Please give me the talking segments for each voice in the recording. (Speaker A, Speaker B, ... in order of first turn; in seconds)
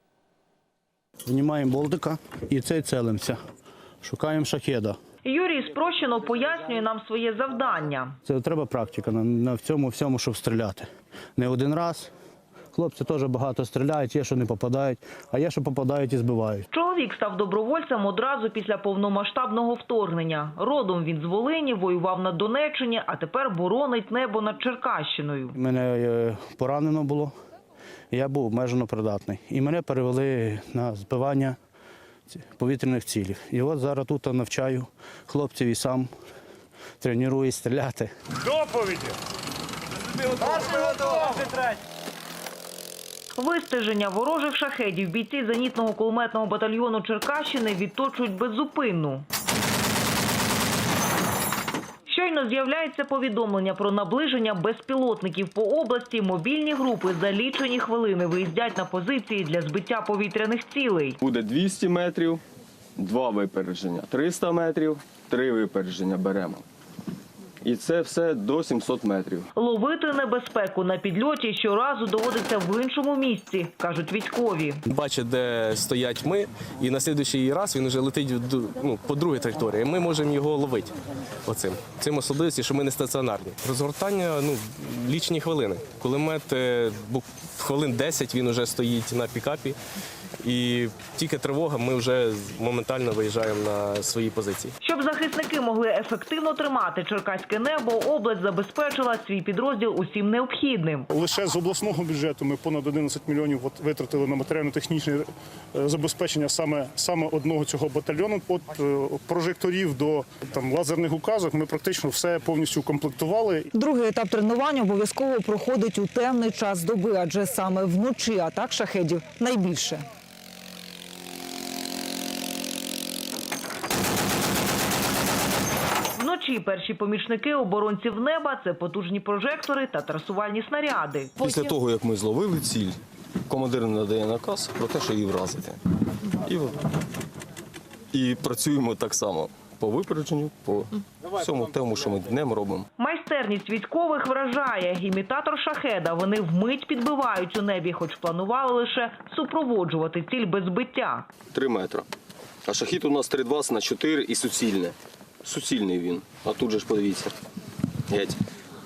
Speaker A: 1.2-3.4, 4.0-5.0, 8.2-12.1, 12.7-16.6, 25.6-27.3, 28.1-31.6, 32.3-36.1, 37.0-38.1
Speaker B: 5.2-8.2, 16.7-25.6, 43.4-49.2, 52.1-61.2, 69.5-74.8, 94.8-101.1, 126.1-131.4, 143.0-151.3
Speaker C: 61.2-62.4, 63.0-66.6, 67.6-69.5, 131.4-135.8, 136.3-136.9, 138.1-142.9, 151.5-152.1, 152.6-157.3, 158.1-158.4
Speaker D: 74.9-80.9, 81.5-89.8, 90.4-94.7
Speaker E: 101.1-113.7
Speaker F: 113.7-120.0